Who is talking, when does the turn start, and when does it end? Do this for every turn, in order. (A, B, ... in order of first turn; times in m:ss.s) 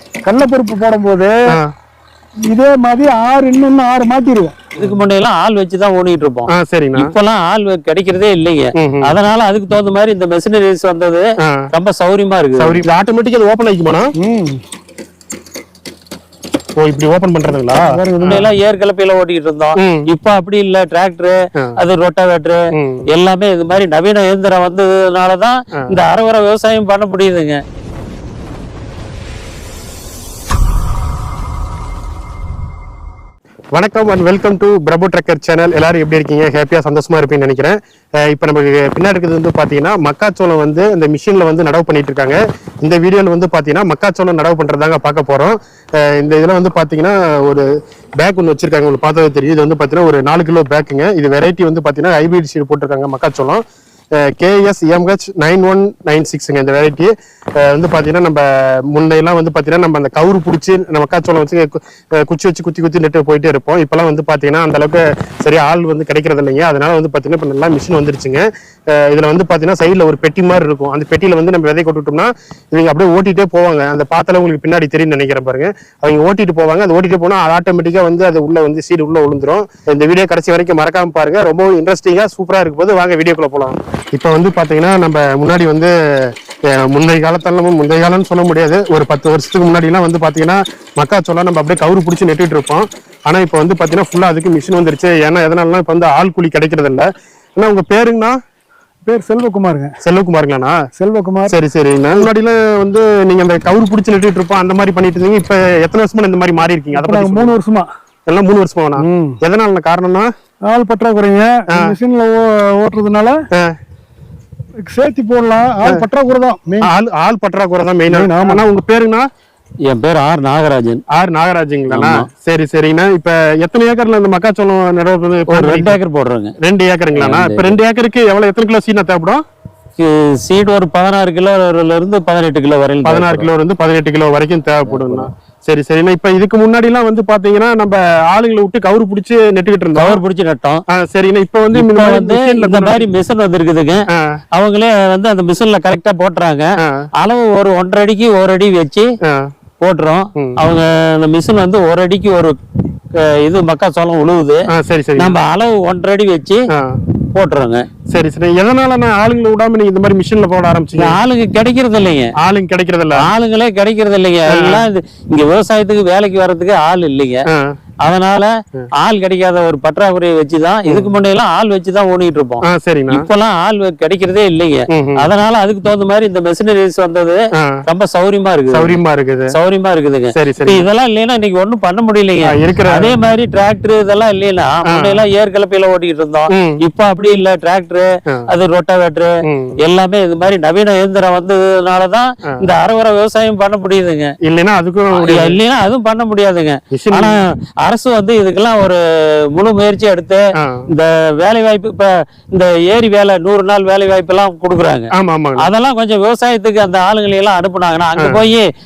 0:00.3-0:01.4 A
0:02.5-0:04.6 A
0:04.8-0:12.8 B
0:06.5-0:07.1 C
0:08.8-0:09.1 C
0:12.6-0:14.1 C
0:14.2-0:14.6 A
0:16.8-0:18.5 C
0:17.8-0:18.4 A
0:18.2-0:22.6 B
0:19.8-0:20.1 C
0:22.8-0:23.1 C
0:23.1-0:27.6 B
0:33.8-0:53.6 C
0:54.2-1:38.4 C
1:39.0-1:39.9 A
1:40.0-1:40.8 C
1:41.0-1:41.6 A
1:41.5-1:47.6 C
1:46.9-1:47.9 A
1:48.3-1:50.3 C
1:49.0-1:49.4 A
1:50.7-1:53.4 A
1:51.7-1:52.0 C
1:54.9-1:56.9 A
1:56.8-1:59.3 C
1:58.1-1:58.6 A
1:59.9-2:01.0 B
2:01.1-2:06.0 C
2:01.9-2:02.3 B
2:05.5-2:06.5 B
2:06.6-2:09.4 C
2:07.1-2:07.8 B
2:10.0-2:13.5 B
2:13.0-2:20.2 C
2:14.9-2:15.3 B
2:20.0-2:20.8 B
2:20.9-2:23.1 C
2:21.7-2:24.0 B
2:24.6-2:26.7 B
2:27.2-2:29.1 B
2:29.2-2:29.5 C
2:29.8-2:32.6 B
2:30.4-2:30.6 C
2:33.2-2:34.6 B
2:34.7-2:35.4 C
2:35.2-2:36.6 B
2:37.3-2:37.8 B
2:38.1-2:41.2 C
2:41.0-2:42.3 B
2:42.4-2:43.3 C
2:43.2-2:47.4 B
2:44.6-2:44.9 C
2:48.0-2:48.5 B
2:49.0-2:59.0 B
2:50.9-2:51.1 C
2:52.7-2:53.3 C
2:54.9-2:55.3 C
2:58.7-2:59.5 C
2:59.5-3:09.3 B
3:00.4-3:00.9 C
3:02.4-3:03.1 C
3:04.9-3:05.2 C
3:06.5-3:06.8 C
3:09.5-3:09.8 C
3:09.8-3:14.3 B
3:14.4-3:15.6 C
3:15.1-3:19.0 B
3:16.9-3:17.4 C
3:19.5-3:28.7 B
3:25.2-3:25.7 C
3:28.2-3:28.4 C